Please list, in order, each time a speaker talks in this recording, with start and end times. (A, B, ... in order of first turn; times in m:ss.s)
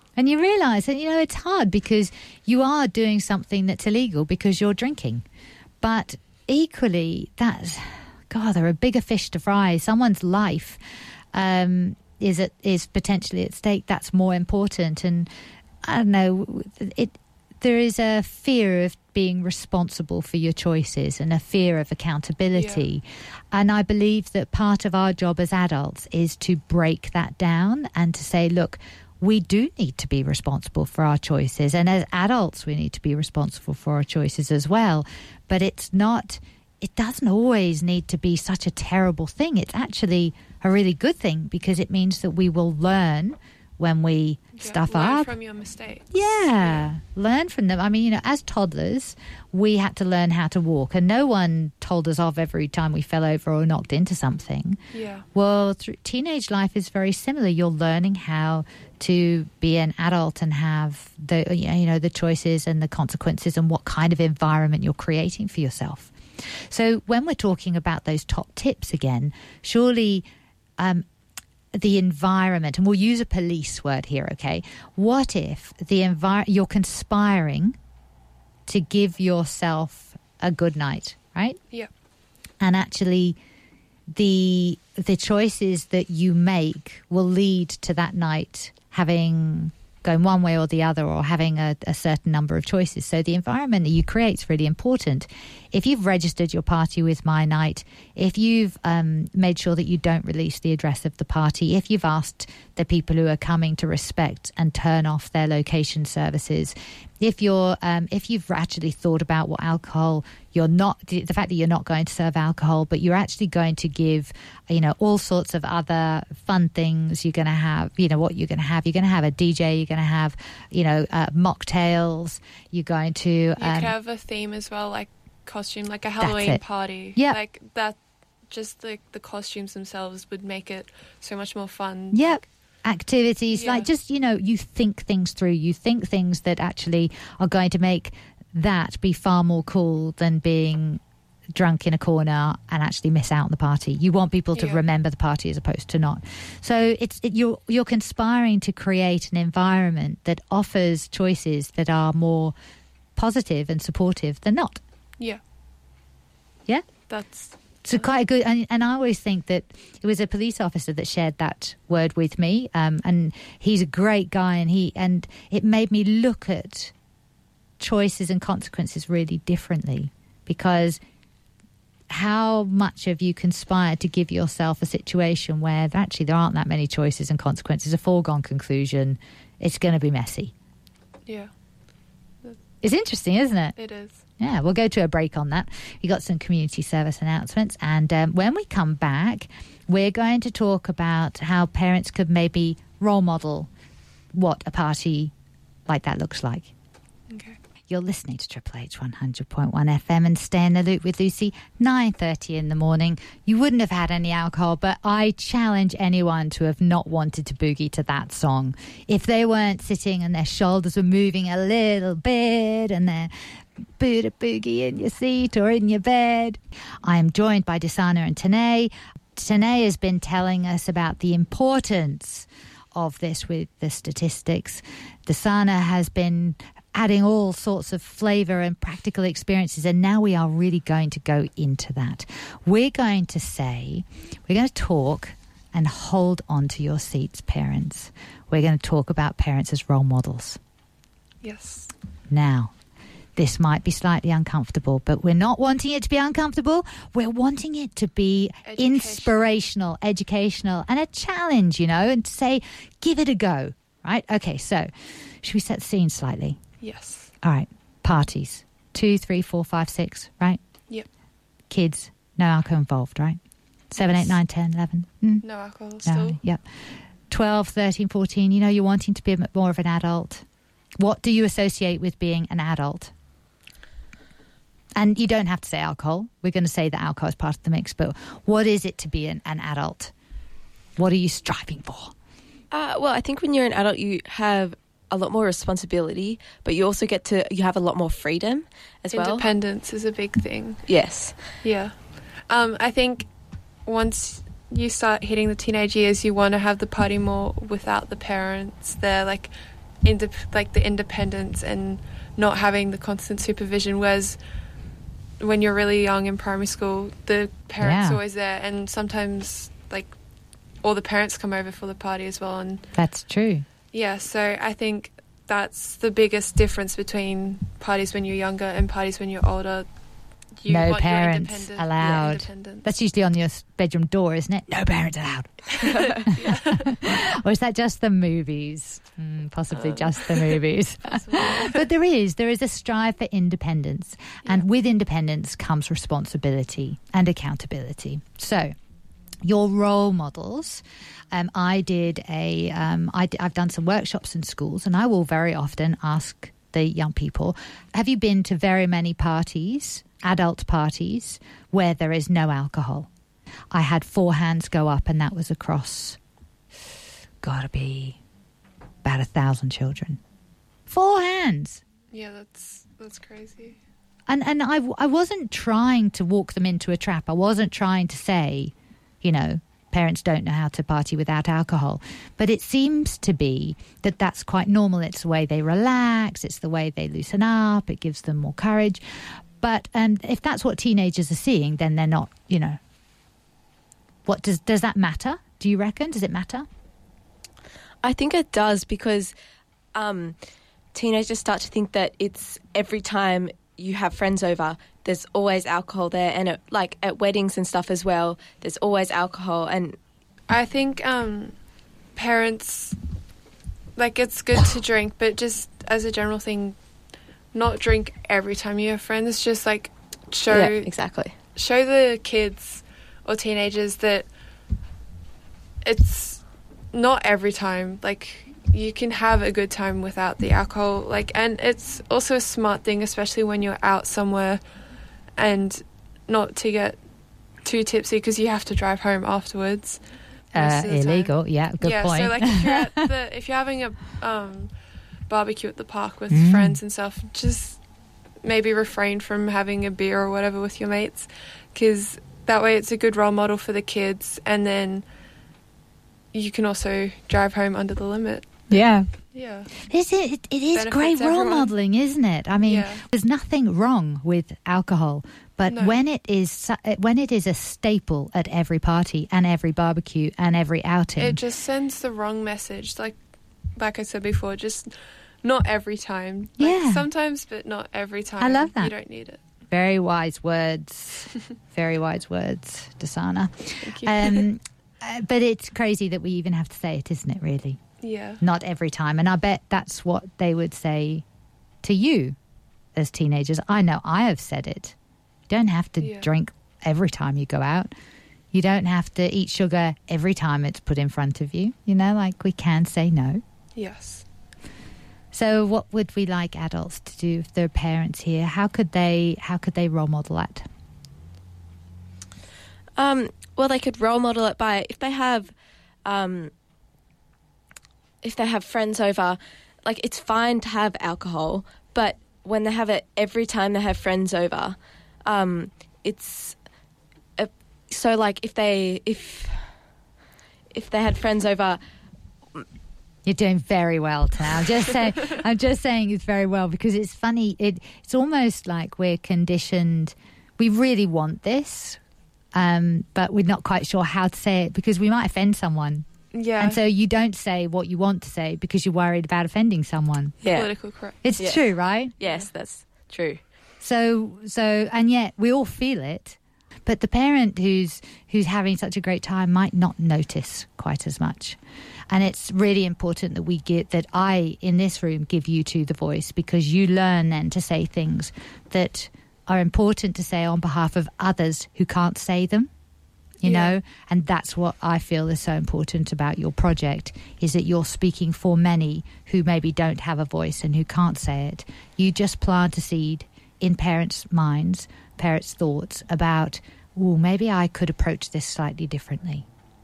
0:00.2-0:05.2 A
0:05.8-0:10.8 A
0:11.3-0:15.3 A
0:15.8-0:45.3 A
0:22.5-0:22.8 B
0:44.5-0:46.9 B
0:46.1-0:54.8 A
0:54.9-0:55.3 B
0:55.3-1:10.2 A
1:10.8-1:11.0 A
1:11.7-1:17.8 A
1:18.7-1:21.6 A
1:22.6-1:23.4 A
1:24.1-2:03.9 A
2:03.6-2:12.4 B
2:06.2-2:07.4 A
2:12.1-2:21.0 A
2:13.5-2:13.9 B
2:21.5-2:32.5 A
2:24.5-2:24.8 B
2:33.2-2:34.8 A
2:36.6-2:37.1 A
2:37.1-2:38.1 B
2:37.8-2:46.9 A
2:47.8-2:51.0 A
2:52.1-3:00.5 A
3:01.3-3:01.5 B
3:02.8-3:03.8 A
3:03.8-3:04.2 B
3:04.4-3:13.7 A
3:14.3-3:15.3 A
3:15.9-3:16.7 A
3:17.3-3:17.6 B
3:17.9-3:33.3 A
3:34.0-4:00.6 A
4:01.4-4:01.9 B
4:02.3-4:02.7 A
4:03.4-4:14.9 A
4:08.6-4:09.5 B
4:15.4-4:16.6 A
4:16.8-4:17.3 B
4:17.4-4:20.6 A
4:21.7-4:23.4 A
4:23.9-4:25.5 A
4:24.0-4:24.3 B
4:25.4-4:26.4 B
4:26.0-4:26.6 A
4:27.3-4:30.4 A
4:31.0-4:33.1 A
4:35.0-4:40.1 A
4:41.0-4:42.1 A
4:42.7-4:49.4 C
4:49.1-4:50.9 B
4:50.9-4:51.4 C
4:51.6-4:53.3 B
4:53.8-4:59.5 B
5:00.0-5:04.4 B
5:05.4-5:10.2 B
5:07.8-5:08.2 A
5:10.8-5:12.9 B
5:13.0-5:13.6 A
5:13.9-5:19.9 B
5:20.5-5:22.8 B
5:20.7-5:38.7 A
5:25.8-5:27.0 B
5:29.7-5:31.8 B
5:39.4-5:53.1 A
5:53.7-5:56.2 A
5:57.4-5:58.2 A
5:59.0-6:00.2 A
6:00.9-6:01.8 A
6:02.1-6:03.8 B
6:04.3-6:19.0 A
6:19.6-6:22.8 A
6:24.2-6:26.6 A
6:28.0-6:29.3 C
6:29.9-6:30.4 C
6:30.9-6:40.0 C
6:40.5-6:41.6 B
6:42.1-6:43.0 B
6:44.0-6:46.8 B
6:47.5-6:50.9 B
6:50.5-6:51.3 C
6:51.5-6:54.3 B
6:55.8-7:04.6 B
7:05.4-7:07.0 B
7:07.6-7:10.0 B
7:10.5-7:14.7 B
7:10.5-7:12.9 A
7:15.3-7:17.8 B
7:16.3-7:16.8 A
7:18.4-7:25.0 B
7:26.3-7:28.5 B
7:28.7-7:29.1 A
7:29.3-7:29.7 B
7:29.8-7:41.4 A
7:30.7-7:31.7 B
7:32.6-7:33.0 B
7:35.6-7:36.0 B
7:41.2-7:43.2 B
7:43.8-7:49.4 B
7:46.6-7:47.0 A
7:48.4-7:48.9 A
7:49.7-7:57.8 A
7:53.8-7:54.5 B
7:58.0-7:58.4 B
7:58.4-8:01.2 A
8:01.8-8:02.4 A
8:02.9-8:04.9 A
8:05.5-8:07.9 A
8:06.0-8:06.3 B
8:08.5-8:13.4 A
8:13.8-8:14.3 B
8:15.3-8:20.6 A
8:23.0-8:25.5 C
8:26.0-8:26.5 C
8:28.2-8:36.6 C
8:37.4-8:39.7 C
8:40.7-8:41.8 C
8:43.2-8:52.0 A
8:52.5-8:56.1 A
8:56.3-8:56.8 B
8:56.6-9:00.3 A
9:00.4-9:00.7 C
9:00.5-9:01.2 B
9:01.2-9:02.1 A
9:01.4-9:01.6 C
9:02.2-9:03.4 C
9:03.8-9:11.6 A
9:12.1-9:22.7 A
9:23.4-9:39.4 A
9:23.4-9:23.8 B